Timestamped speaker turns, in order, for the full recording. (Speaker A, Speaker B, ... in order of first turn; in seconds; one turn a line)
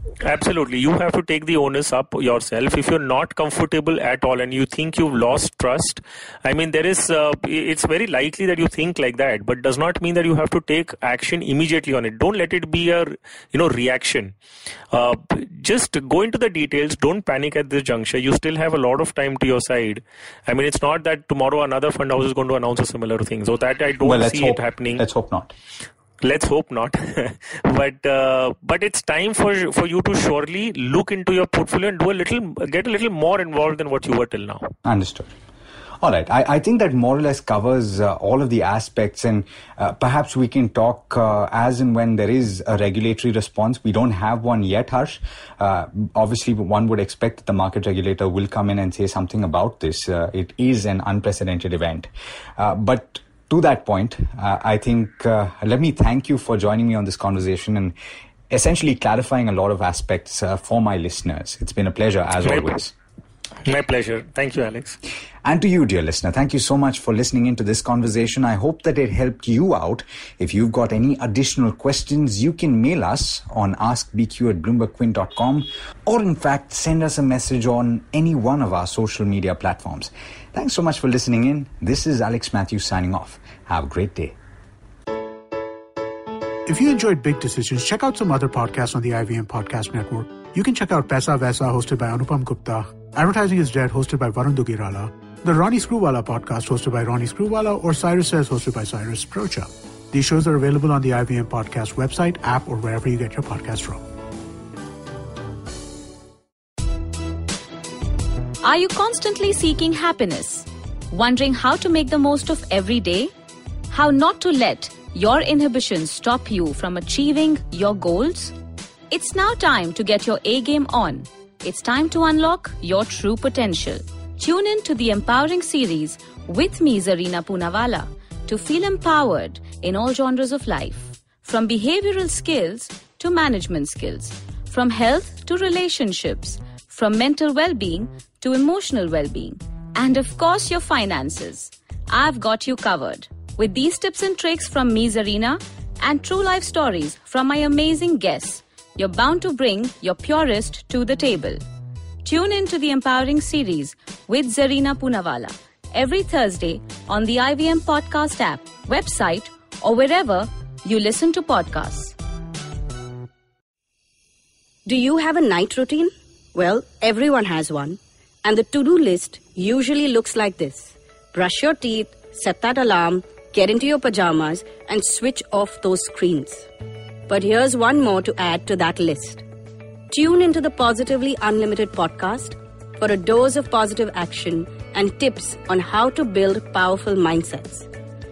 Speaker A: 0.2-14.3
Speaker A: 14.9-25.0
Speaker B: 24.0-25.5
Speaker A: 26.2-34.7
Speaker B: 34.9-35.4
Speaker B: 36.0-58.0
Speaker B: 58.5-62.9
Speaker A: 62.4-62.7
Speaker A: 63.6-65.0
Speaker B: 65.5-84.4
Speaker C: 86.7-104.0
Speaker D: 108.6-113.3
Speaker D: 113.9-118.5
Speaker D: 119.1-151.6
Speaker D: 152.2-162.2
Speaker E: 164.9-176.7
Speaker E: 177.3-179.4
Speaker E: 180.1-187.9